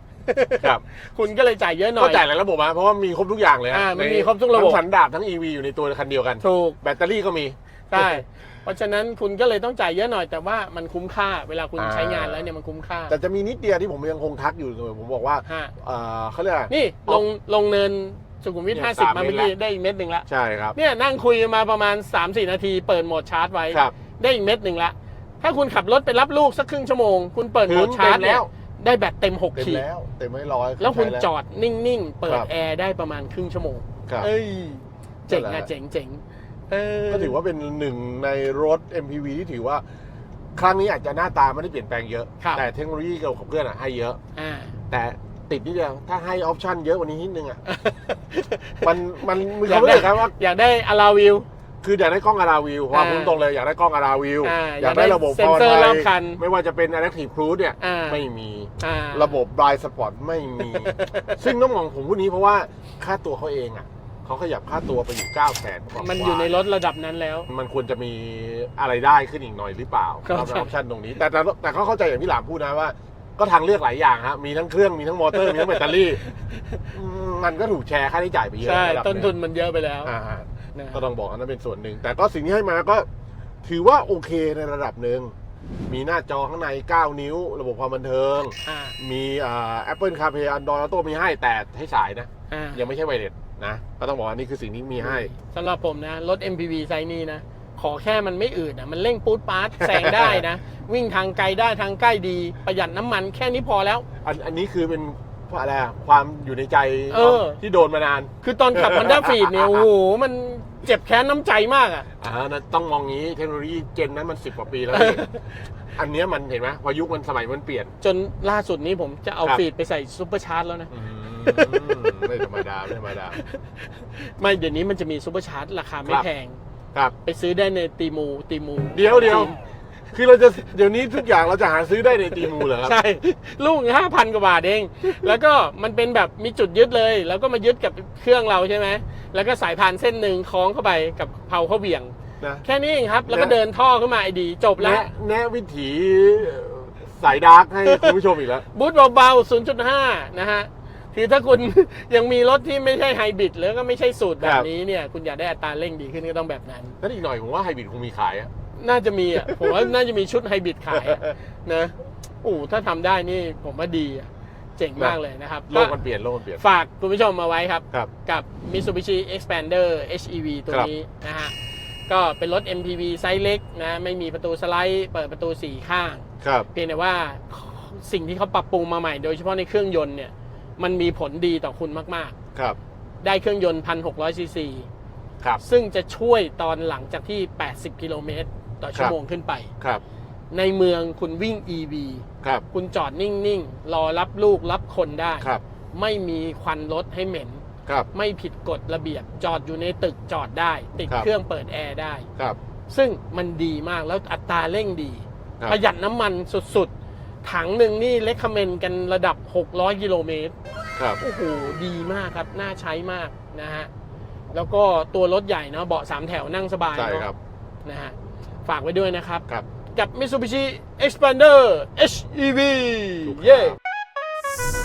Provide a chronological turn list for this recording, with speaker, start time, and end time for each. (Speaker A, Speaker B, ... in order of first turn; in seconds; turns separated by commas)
Speaker A: 0.2-2.2, Speaker B: 2.0-8.2, Speaker A: 3.7-4.8, Speaker A: 6.4-6.8, Speaker A: 7.9-13.1, Speaker B: 11.8-12.4, Speaker B: 13.1-17.2, Speaker A: 15.4-15.7, Speaker A: 16.7-29.8, Speaker B: 18.7-19.5, Speaker B: 20.3-20.7, Speaker B: 27.7-28.5, Speaker B: 29.5-31.3, Speaker A: 30.8-37.4, Speaker B: 35.3-35.7, Speaker B: 37.1-39.8, Speaker B: 40.5-44.2, Speaker A: 42.4-42.6, Speaker A: 44.4-44.7, Speaker B: 44.9-47.6, Speaker A: 47.7-48.9, Speaker B: 48.8-50.3, Speaker A: 49.5-51.5, Speaker B: 51.8-66.5, Speaker A: 52.9-53.4, Speaker A: 54.4-56.4, Speaker A: 57.8-58.2, Speaker A: 58.8-59.4, Speaker A: 60.6-61.5, Speaker A: 66.0-67.5, Speaker B: 67.5-76.2, Speaker A: 70.2-70.7, Speaker A: 75.3-76.8, Speaker B: 76.9-79.3, Speaker A: 78.6-80.1, Speaker B: 80.0-83.1, Speaker A: 80.7-81.0, Speaker B: 83.6-85.3, Speaker B: 85.9-95.3, Speaker A: 88.6-89.0, Speaker A: 92.5-92.8, Speaker A: 95.0-104.0, Speaker B: 99.8-100.4, Speaker B: 104.2-109.9, Speaker A: 107.1-107.6, Speaker A: 108.4-112.1, Speaker B: 112.2-115.2, Speaker A: 114.9-115.4, Speaker B: 116.0-117.9, Speaker A: 118.0-120.9, Speaker B: 120.9-123.4, Speaker A: 121.4-122.0, Speaker A: 123.3-126.6, Speaker A: 127.2-129.6, Speaker B: 128.9-129.6, Speaker B: 130.1-133.0, Speaker A: 132.4-145.1, Speaker B: 142.4-142.6, Speaker B: 143.3-143.5, Speaker B: 144.8-148.6, Speaker A: 147.8-148.1, Speaker A: 148.7-157.0, Speaker B: 154.4-154.7, Speaker B: 157.0-158.5, Speaker A: 158.8-165.9, Speaker B: 159.4-159.9, Speaker B: 160.9-161.3, Speaker B: 165.7-166.6, Speaker A: 166.6-171.5, Speaker A: 172.1-182.3, Speaker B: 176.4-176.7, Speaker A: 183.2-184.9, Speaker A: 185.6-189.7, Speaker A: 190.5-202.3, Speaker A: 202.9-206.9, Speaker A: 207.4-210.5, Speaker A: 211.2-213.9, Speaker A: 214.5-217.3, Speaker B: 216.9-217.3, Speaker A: 217.8-223.7, Speaker B: 223.2-223.7